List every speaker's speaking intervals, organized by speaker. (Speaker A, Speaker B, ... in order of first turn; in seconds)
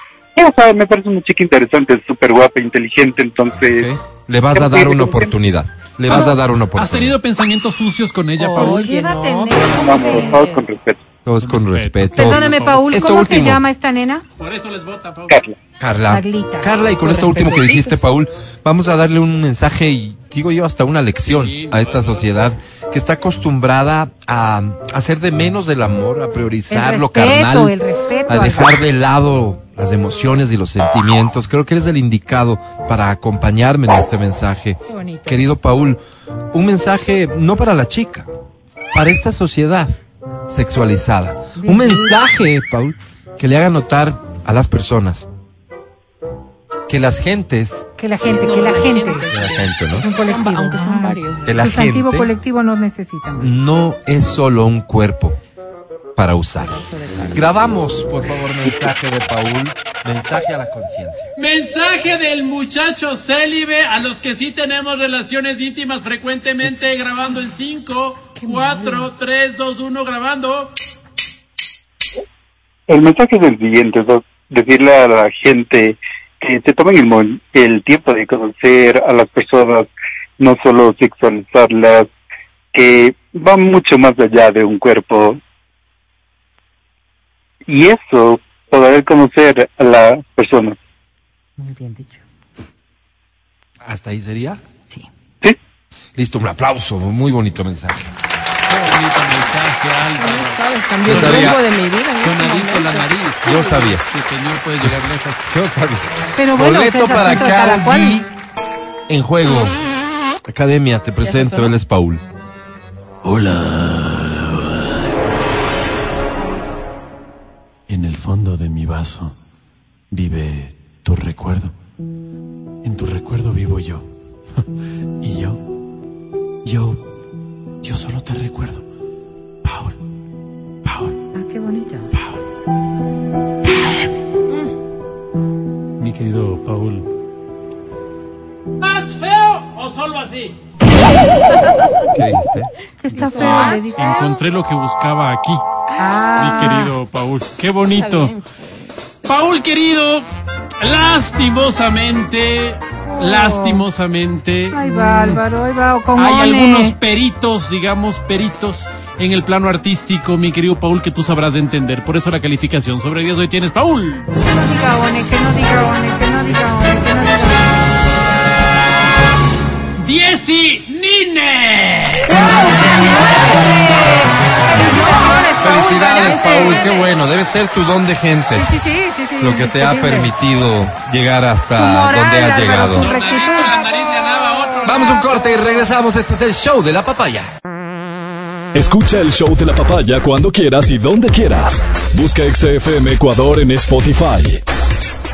Speaker A: 0.3-3.9, 4.5-5.3, 9.7-11.0, 15.3-15.6, 72.9-82.1, 82.7-85.4, 87.7-90.8
Speaker B: 3.7-7.2, 11.2-13.6, 15.8-27.8, 28.3-36.0, 36.5-38.3, 38.9-39.9, 40.5-45.3, 46.9-47.9, 49.3-50.1, 51.5-52.3, 53.4-55.4, 56.1-61.3, 93.8-94.6, 96.2-98.1, 101.0-101.6, 103.4-104.0, 105.5-108.3, 109.1-109.8, 110.5-112.2, 142.1-142.7, 175.6-183.1, 184.8-187.5
Speaker C: 6.1-8.8, 11.4-12.9, 14.4-15.4, 21.3-22.3, 61.4-70.8, 98.7-101.6, 102.2-105.4, 113.2-114.9, 117.9-119.3, 120.1-121.7, 122.8-124.0, 125.2-125.6, 126.6-127.0, 127.8-128.8, 129.6-129.9, 130.8-131.1, 136.0-137.1, 138.8-140.6, 143.1-145.6, 146.4-148.3, 149.2-150.3, 150.8-155.4, 156.1-164.3, 170.0-172.4, 182.9-185.3
Speaker D: 8.3-10.7, 17.0-18.1, 48.2-51.8, 56.6-57.7, 68.3-69.1, 100.2-103.1, 111.2-111.7, 143.1-144.4, 145.9-146.2, 147.9-148.9
Speaker E: 8.6-10.4, 12.2-14.2, 16.1-16.7, 26.7-28.8, 34.9-35.4, 41.5-42.2, 48.0-49.3, 50.0-53.5, 91.6-92.2, 106.3-108.2, 131.3-132.1, 143.0-144.0, 146.0-146.9, 153.2-153.8, 154.7-157.0, 164.3-167.8, 172.3-176.9, 178.5-180.3, 181.7-183.7
Speaker F: 164.8-165.3, 188.7-194.6